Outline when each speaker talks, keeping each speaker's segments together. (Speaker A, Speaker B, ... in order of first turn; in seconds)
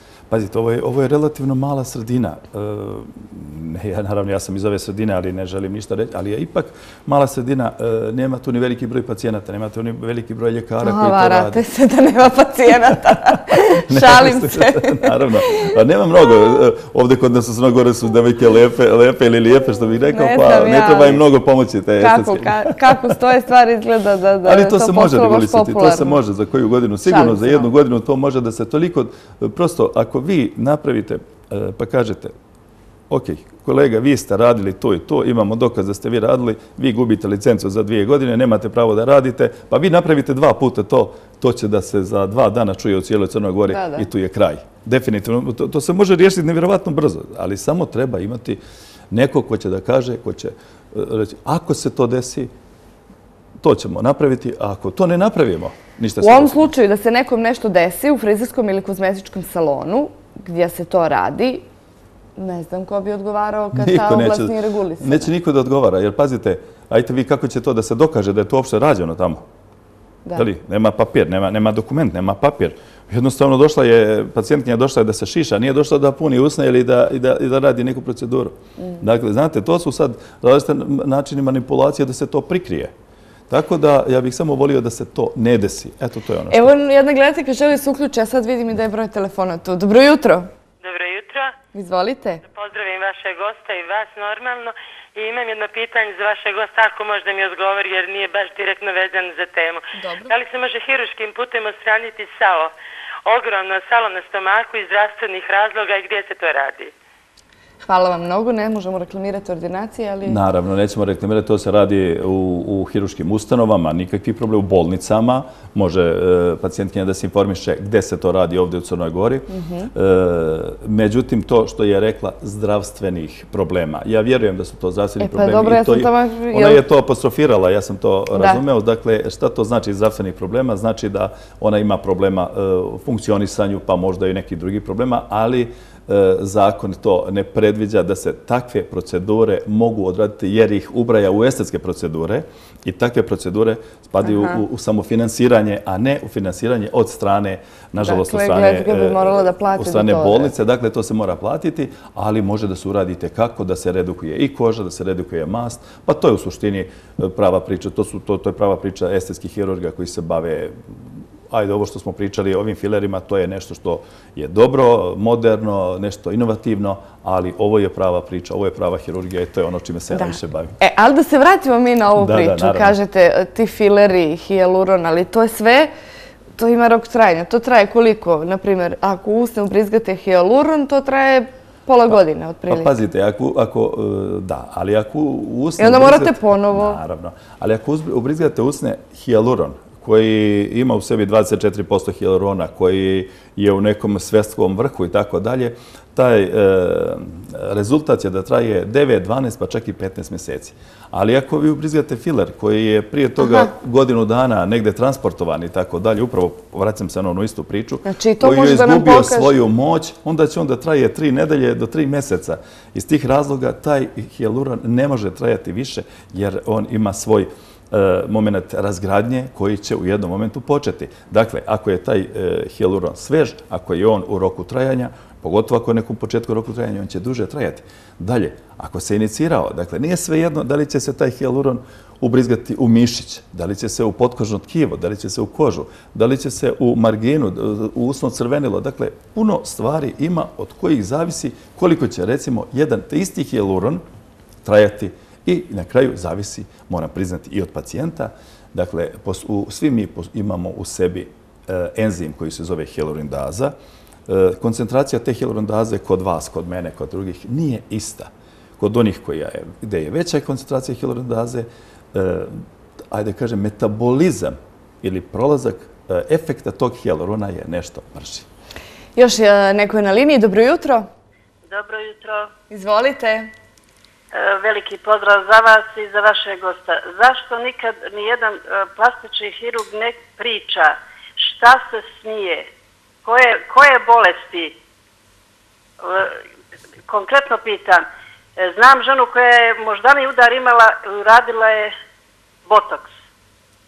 Speaker A: 0.3-11.6, 13.8-23.2, 24.4-32.3, 33.1-52.5, 53.6-56.7, 63.7-69.4, 70.4-82.9, 83.5-86.7, 110.3-160.8, 161.5-170.8, 172.2-172.9, 182.7-244.0, 244.6-253.7, 254.3-262.5, 263.1-268.5
Speaker B: 10.8-15.7, 20.1-21.2, 22.0-26.2, 27.1-27.7, 43.7-44.1, 56.2-61.6, 62.4-65.3, 86.5-90.5, 91.7-92.4, 99.9-100.3, 107.8-110.4, 119.5-119.9, 125.2-126.8, 128.3-128.6, 144.2-144.6, 148.0-150.5, 170.1-175.9, 176.6-182.9, 185.8-187.0, 203.4-203.7, 208.1-209.5, 269.2-271.1, 272.7-273.5
Speaker C: 90.8-91.5, 92.5-102.7, 103.3-106.9
Speaker D: 271.7-272.5, 274.3-282.7, 283.2-284.8, 286.0-286.4, 287.1-288.1, 288.6-291.9, 292.7-293.1